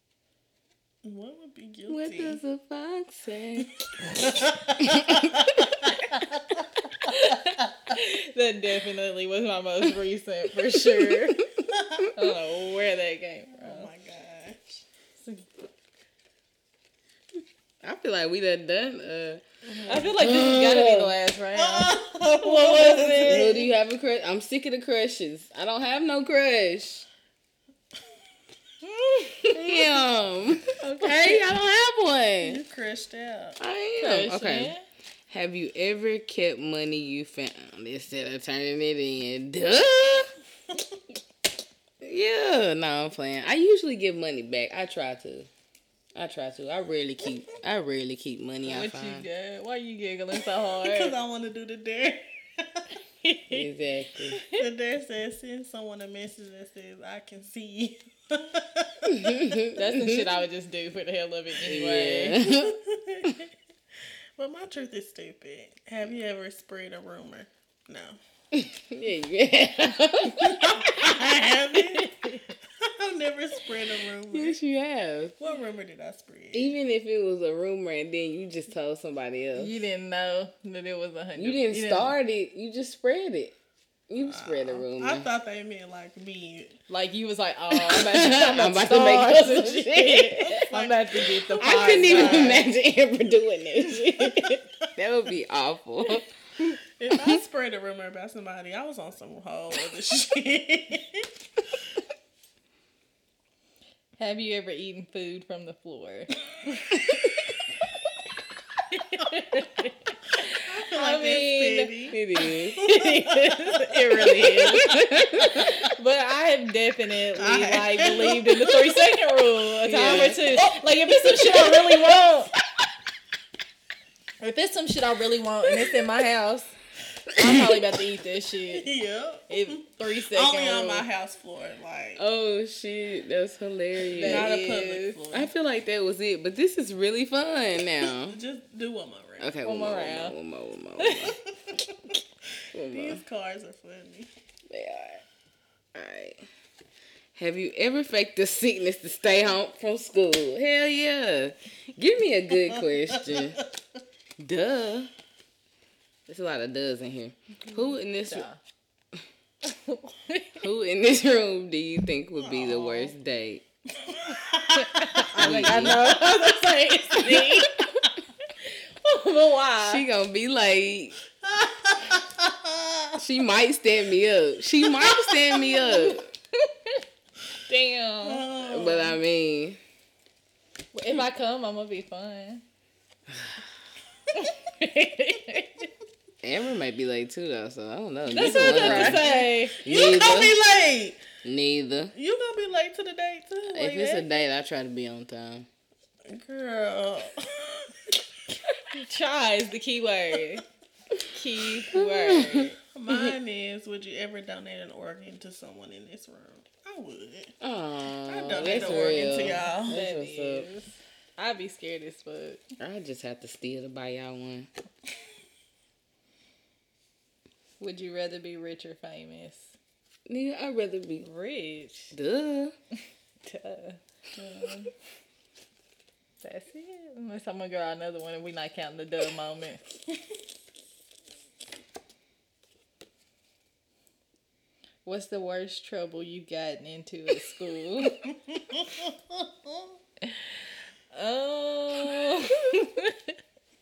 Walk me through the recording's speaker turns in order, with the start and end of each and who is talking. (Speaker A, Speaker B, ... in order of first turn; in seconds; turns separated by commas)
Speaker A: 1.0-2.4, Speaker B: 1.9-3.7, Speaker A: 4.0-5.6, Speaker B: 4.8-5.7, Speaker C: 7.0-11.4, Speaker B: 11.0-11.4, Speaker C: 12.1-13.9, Speaker A: 13.5-14.8, Speaker C: 15.2-15.5, Speaker B: 17.8-19.4, Speaker A: 19.7-20.3, Speaker C: 19.9-23.6, Speaker B: 20.1-21.1, Speaker A: 21.5-23.7, Speaker B: 23.3-27.1, Speaker C: 28.8-29.7, Speaker B: 29.5-32.6, Speaker C: 31.0-31.3, Speaker A: 32.4-33.6, Speaker B: 33.6-34.7, Speaker C: 34.0-34.8, Speaker B: 35.3-40.3, Speaker B: 42.0-45.5, Speaker B: 46.1-49.2, Speaker C: 48.6-51.1, Speaker A: 50.8-52.9, Speaker C: 53.2-53.6, Speaker B: 53.5-54.4, Speaker C: 54.3-54.6, Speaker A: 54.5-59.6, Speaker B: 59.1-60.2, Speaker C: 59.7-62.4, Speaker B: 61.6-63.4, Speaker A: 62.5-63.3, Speaker A: 64.4-68.2, Speaker B: 68.5-71.2, Speaker A: 70.3-72.1, Speaker C: 71.8-72.5, Speaker A: 72.8-74.6, Speaker B: 74.3-75.3, Speaker A: 75.4-76.7, Speaker B: 76.5-79.7, Speaker C: 79.5-82.1, Speaker B: 81.3-83.5, Speaker B: 84.1-85.3, Speaker A: 84.2-86.8, Speaker C: 86.9-92.7, Speaker B: 87.7-90.7, Speaker A: 90.5-92.7, Speaker B: 91.6-96.2, Speaker C: 94.3-94.5, Speaker A: 97.0-101.3, Speaker B: 97.1-97.4, Speaker C: 104.2-106.8, Speaker C: 108.9-111.9, Speaker A: 110.7-114.4, Speaker B: 112.1-112.9, Speaker C: 112.7-122.5, Speaker B: 114.1-115.8, Speaker A: 117.3-118.7, Speaker B: 119.8-120.6, Speaker C: 124.4-126.7, Speaker C: 127.3-128.9, Speaker A: 128.7-132.2, Speaker C: 129.5-131.1, Speaker B: 132.2-134.5, Speaker C: 134.2-135.2, Speaker A: 134.2-135.5, Speaker B: 135.3-138.4, Speaker A: 138.2-139.5, Speaker B: 139.4-141.4, Speaker C: 139.6-140.3, Speaker C: 141.0-141.3, Speaker A: 141.7-142.1, Speaker B: 142.7-143.2, Speaker A: 142.9-144.3, Speaker B: 144.7-145.2, Speaker B: 145.9-146.4, Speaker B: 147.3-153.6, Speaker B: 154.4-155.1, Speaker B: 156.3-158.5, Speaker C: 158.2-158.6, Speaker C: 159.6-160.6, Speaker B: 160.6-163.6, Speaker A: 162.5-163.1, Speaker A: 164.0-165.9, Speaker C: 164.7-168.1, Speaker B: 165.3-166.3, Speaker B: 167.2-167.6, Speaker C: 168.6-170.0, Speaker B: 169.8-171.2, Speaker A: 171.4-173.2, Speaker B: 173.2-176.2, Speaker C: 175.4-177.0, Speaker C: 177.6-178.5, Speaker A: 178.2-179.2, Speaker B: 178.6-179.8, Speaker C: 180.9-182.6, Speaker C: 184.3-185.9, Speaker B: 186.4-189.3, Speaker C: 188.3-189.8, Speaker A: 188.3-191.2, Speaker B: 189.8-190.6, Speaker B: 191.4-192.1, Speaker A: 192.1-194.3, Speaker B: 193.7-195.7, Speaker A: 196.3-198.1, Speaker C: 198.9-200.6, Speaker C: 201.3-202.8, Speaker B: 201.9-203.3, Speaker A: 202.9-207.5, Speaker B: 207.6-210.7, Speaker A: 208.2-209.9, Speaker C: 209.9-212.7, Speaker B: 212.8-214.7, Speaker C: 217.8-219.7, Speaker B: 220.3-221.3, Speaker C: 221.2-222.1, Speaker B: 222.1-222.7, Speaker C: 223.4-224.0, Speaker A: 224.3-224.9, Speaker C: 226.4-229.8, Speaker C: 235.0-238.2, Speaker A: 238.2-239.7, Speaker C: 240.2-240.5, Speaker C: 241.1-243.3